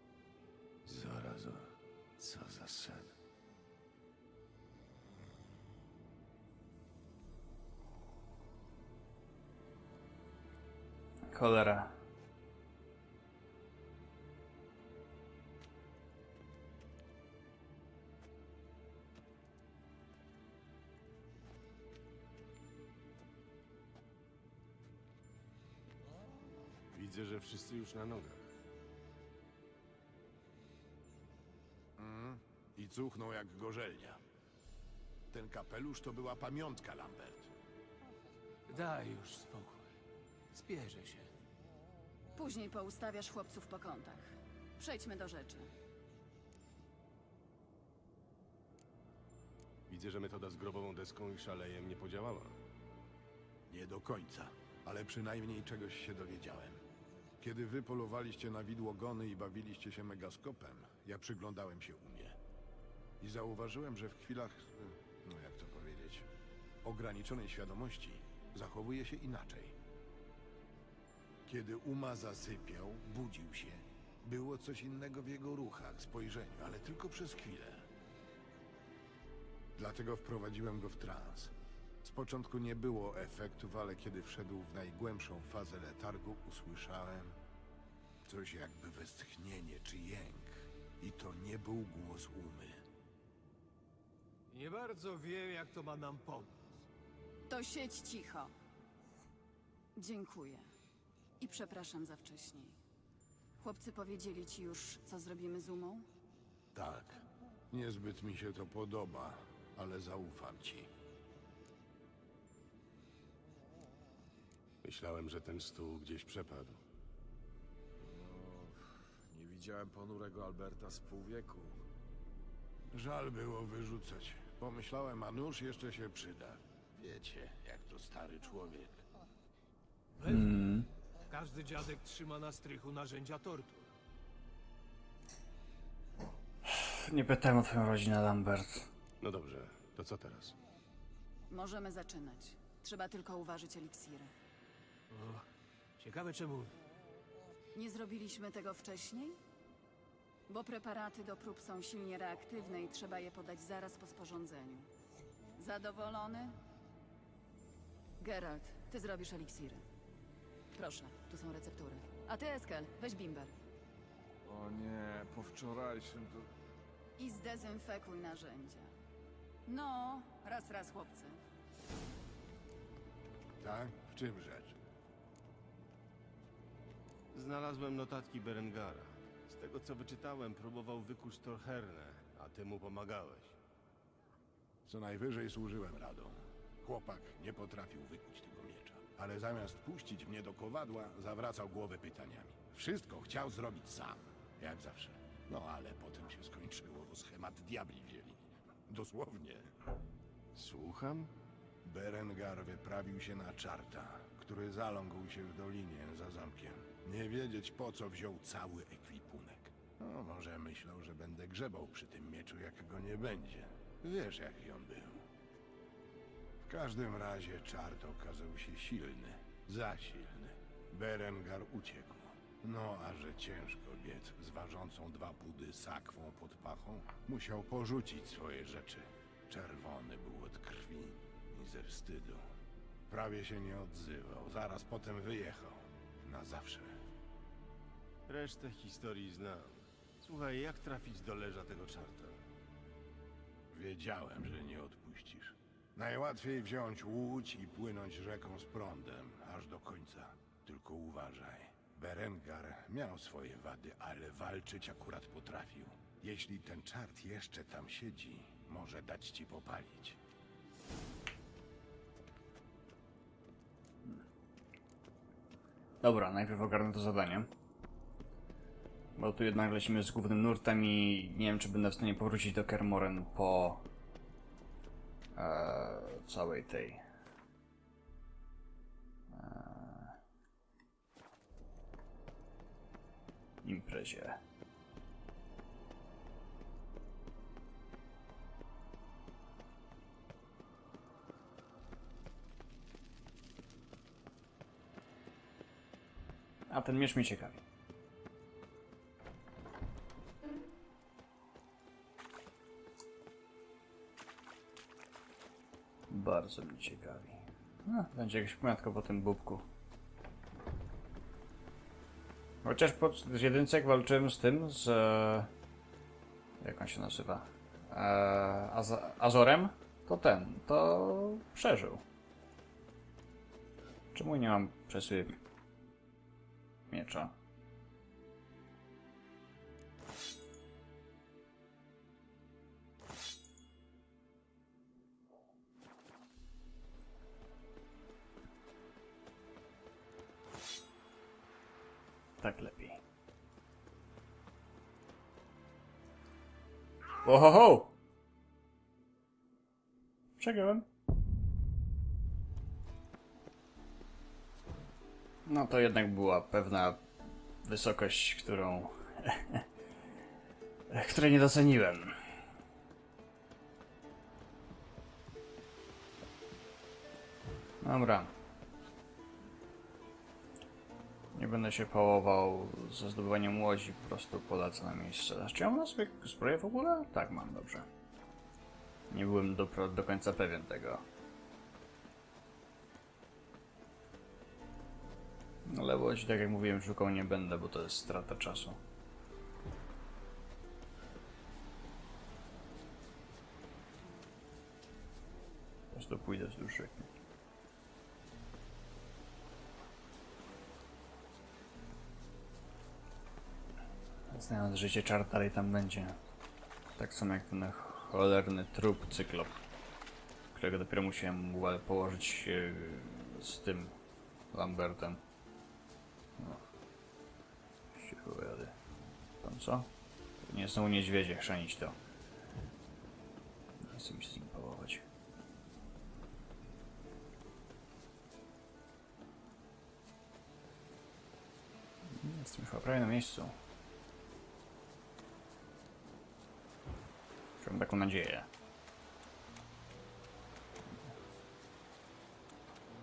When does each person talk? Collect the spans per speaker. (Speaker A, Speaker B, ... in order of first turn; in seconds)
Speaker A: 0.8-3.1, 26.9-28.4, 49.9-52.6, 114.8-116.8, 139.2-140.5, 177.3-183.6, 200.5-201.3, 238.3-242.4
Speaker B: 11.3-11.9, 130.2-130.9, 136.6-138.9, 266.0-267.5, 269.1-273.8, 275.3-277.0, 279.3-280.2, 283.6-284.4, 296.7-297.6, 306.1-309.7, 312.6-315.5, 316.6-322.0, 324.1-325.4, 326.9-327.3, 342.4-343.0, 347.2-347.9, 350.4-350.9, 355.4-357.0, 357.6-359.7, 360.9-362.3, 367.8-368.3, 371.3-377.9, 379.1-381.1, 385.7-388.8, 395.9-397.1, 404.3-406.2, 407.0-409.6, 410.5-413.9, 414.5-415.2, 416.4-416.6, 417.9-418.7, 419.4-419.9, 420.4-422.0, 423.8-425.0, 432.1-433.6, 437.6-438.5
Speaker C: 32.0-34.2, 35.3-37.5, 53.7-56.8, 57.4-62.4, 63.2-66.3, 66.8-69.8, 71.5-77.9, 79.8-87.4, 88.2-92.8, 106.7-110.9, 122.9-129.0, 173.6-174.8, 184.8-199.7, 201.8-215.2, 216.6-232.4, 233.1-237.0, 243.7-260.2
Speaker D: 38.7-39.8, 40.5-41.3, 94.5-96.6, 130.2-130.6, 131.3-133.9, 145.1-145.4, 146.0-146.8
Speaker E: 42.4-45.7, 97.5-98.5, 100.0-100.7, 101.4-102.8, 103.6-106.0, 141.5-144.3, 147.7-149.4, 150.5-154.9, 155.6-156.6, 158.2-159.8, 160.7-163.5, 167.2-168.9, 169.7-171.4
Speaker F: 118.0-121.8, 164.4-166.5